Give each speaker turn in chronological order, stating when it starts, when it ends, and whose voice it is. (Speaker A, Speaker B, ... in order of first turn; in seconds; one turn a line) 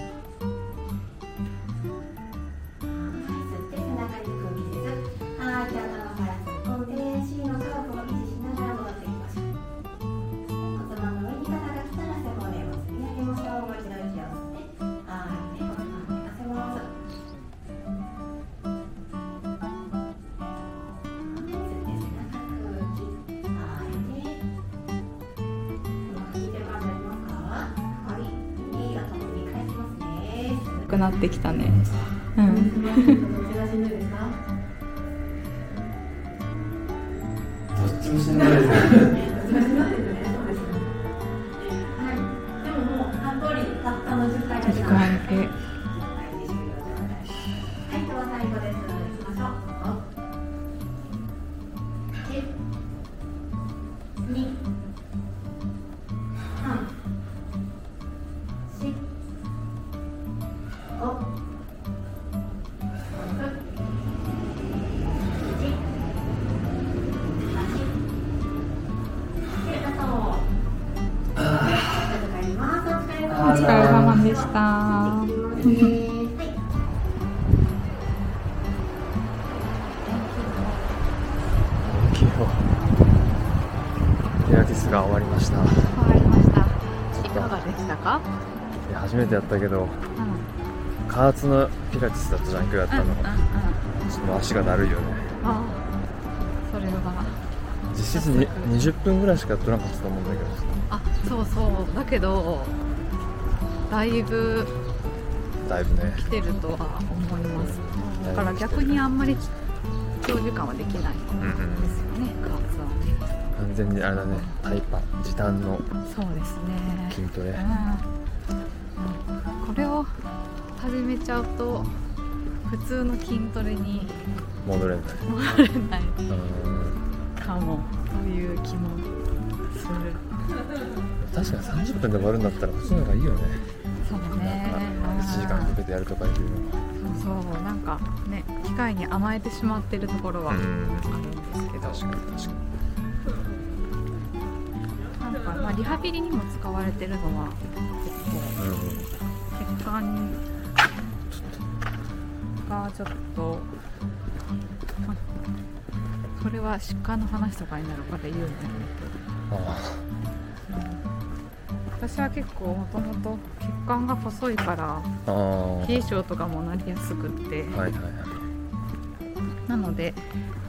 Speaker A: 2.9-9.5
Speaker A: 10.6-16.9
Speaker A: 21.2-24.4
Speaker A: 26.1-31.1
Speaker B: 30.9-33.2
Speaker C: 31.7-32.0
Speaker A: 32.4-34.4
Speaker C: 37.7-39.2
Speaker A: 38.3-40.9
Speaker A: 41.9-50.0
Speaker B: 44.6-45.5
Speaker A: 52.2-52.5
Speaker A: 54.2-54.6
Speaker A: 56.5-56.9
Speaker A: 58.7-59.1
Speaker A: 60.9-61.2
Speaker A: 63.1-63.7
Speaker A: 65.3-65.8
Speaker A: 67.3-68.0
Speaker A: 69.5-70.5
Speaker C: 71.4-72.1
Speaker A: 71.4-76.6
Speaker C: 73.3-74.3
Speaker B: 73.4-76.0
Speaker B: 80.0-80.9
Speaker C: 81.8-82.7
Speaker C: 84.4-85.9
Speaker B: 85.9-88.3
Speaker C: 87.1-87.6
Speaker C: 88.9-90.0
Speaker B: 90.2-90.5
Speaker C: 91.1-93.4
Speaker B: 92.9-93.8
Speaker C: 94.0-95.3
Speaker B: 95.4-95.9
Speaker B: 96.6-97.4
Speaker C: 97.9-100.8
Speaker B: 98.1-98.8
Speaker B: 100.9-102.8
Speaker B: 103.9-104.7
Speaker C: 105.6-106.3
Speaker B: 106.1-109.5
Speaker C: 107.5-109.0
Speaker B: 110.2-113.3
Speaker C: 111.4-112.0
Speaker C: 113.5-115.9
Speaker B: 114.3-114.6
Speaker B: 116.0-118.1
Speaker C: 117.1-117.7
Speaker B: 119.0-120.2
Speaker B: 120.8-121.9
Speaker B: 122.7-124.2
Speaker C: 124.7-125.3
Speaker B: 125.3-126.2
Speaker C: 126.3-127.0
Speaker B: 127.4-129.1
Speaker B: 129.7-130.2
Speaker C: 131.2-133.7
Speaker B: 134.0-135.8
Speaker C: 134.4-136.8
Speaker B: 137.0-142.0
Speaker C: 140.5-141.2
Speaker C: 141.8-142.7
Speaker B: 145.2-148.6
Speaker C: 148.6-149.1
Speaker B: 149.5-150.4
Speaker C: 151.3-151.6
Speaker B: 152.6-153.7
Speaker B: 156.3-159.2
Speaker C: 159.5-160.1
Speaker B: 160.7-161.0
Speaker B: 162.0-165.1
Speaker C: 165.3-166.2
Speaker B: 165.8-167.9
Speaker C: 167.7-168.5
Speaker B: 169.7-170.2